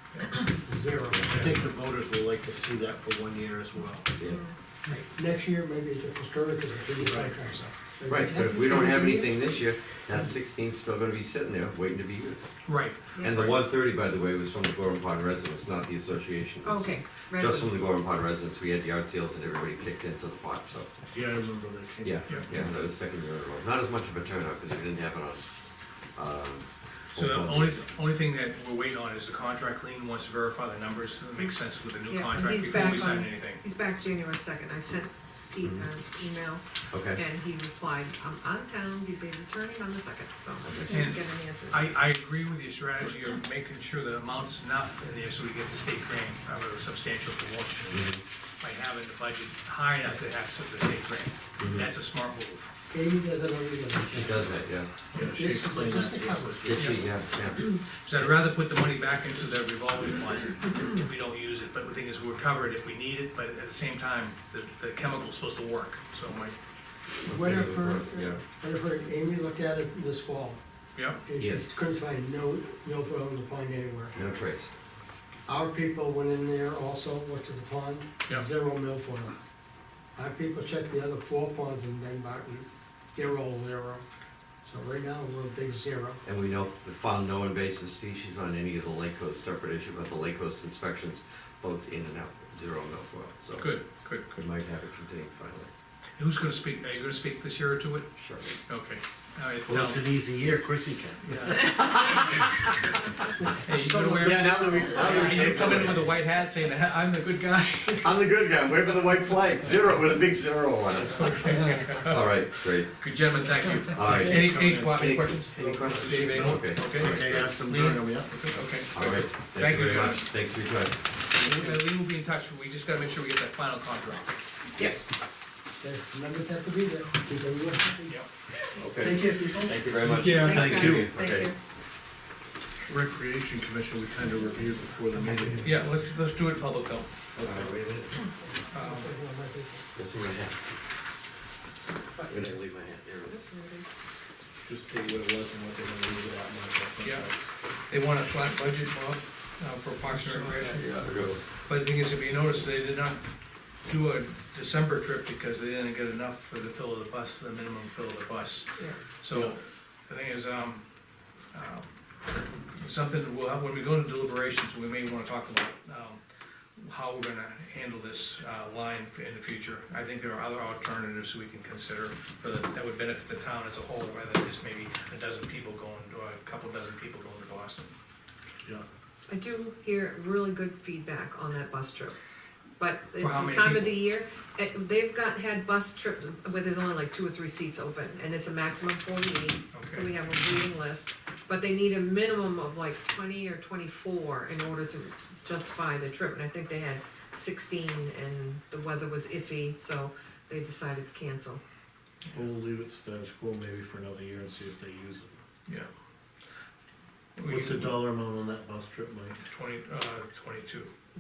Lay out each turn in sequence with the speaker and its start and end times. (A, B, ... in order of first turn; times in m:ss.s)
0:00.1-0:00.4 A
0:00.4-0:01.5 B
0:01.2-0:04.1 C
0:04.2-0:04.4 D
0:04.2-0:04.6 E
0:04.8-0:09.3 B
0:07.0-0:07.4 C
0:08.1-0:12.6 D
0:12.6-0:13.4 A
0:13.1-0:13.6 E
0:13.2-0:21.0 D
0:16.6-0:17.8 E
0:21.1-0:22.7 C
0:22.0-0:27.8 D
0:27.1-0:33.6 A
0:32.1-0:41.9 E
0:35.6-0:35.9 D
0:36.9-0:37.2 D
0:40.6-0:40.9 D
0:40.9-0:52.7 A
0:47.9-0:48.2 D
0:51.6-0:51.9 D
0:52.9-0:54.6 B
0:54.1-0:54.9 D
0:55.1-0:57.0 C
0:55.2-0:57.0 B
0:56.6-0:57.7 D
0:57.6-1:06.6 A
1:07.2-1:10.6 B
1:07.2-1:08.4 D
1:10.9-1:11.2 A
1:11.2-1:14.2 B
1:11.4-1:11.7 D
1:14.1-1:14.7 D
1:15.5-1:19.4 B
1:20.1-1:24.0 B
1:24.6-1:26.2 B
1:26.2-1:35.7 D
1:33.6-1:34.4 A
1:36.2-1:38.1 A
1:38.2-1:38.6 D
1:38.6-1:40.1 A
1:39.6-1:41.8 C
1:41.2-1:42.4 A
1:43.6-1:48.1 A
1:43.8-1:45.5 B
1:44.2-1:46.1 D
1:48.0-1:53.0 D
1:51.1-2:00.3 A
1:53.9-1:57.5 D
1:54.1-1:55.0 C
1:56.1-1:58.8 C
1:58.9-2:01.1 D
2:01.3-2:04.4 A
2:04.8-2:05.0 E
2:04.8-2:05.1 D
2:05.8-2:08.2 B
2:08.7-2:11.5 D
2:08.9-2:09.9 B
2:10.1-2:11.0 C
2:10.2-2:11.0 A
2:10.2-2:11.6 E
2:12.8-2:15.7 C
2:15.2-2:15.7 B
2:15.6-2:17.1 A
2:17.4-2:17.7 C
2:17.4-2:18.1 D
2:18.4-2:19.9 B
2:18.7-2:19.1 A
2:19.9-2:20.7 D
2:22.3-2:23.4 D
2:23.2-2:23.9 E
2:24.6-2:27.3 C
2:27.0-2:27.3 A
2:27.9-2:30.9 A
2:30.1-2:31.4 D
2:31.6-2:33.2 A
2:33.8-2:40.9 A
2:38.8-2:39.0 E
2:41.5-2:46.2 A
2:46.8-2:57.9 A
2:59.3-3:02.2 E
3:02.8-3:21.6 E
3:03.2-3:04.0 A
3:09.7-3:10.1 A
3:22.3-3:25.4 C
3:27.4-3:28.0 A
3:27.4-3:29.4 C
3:29.4-3:30.9 A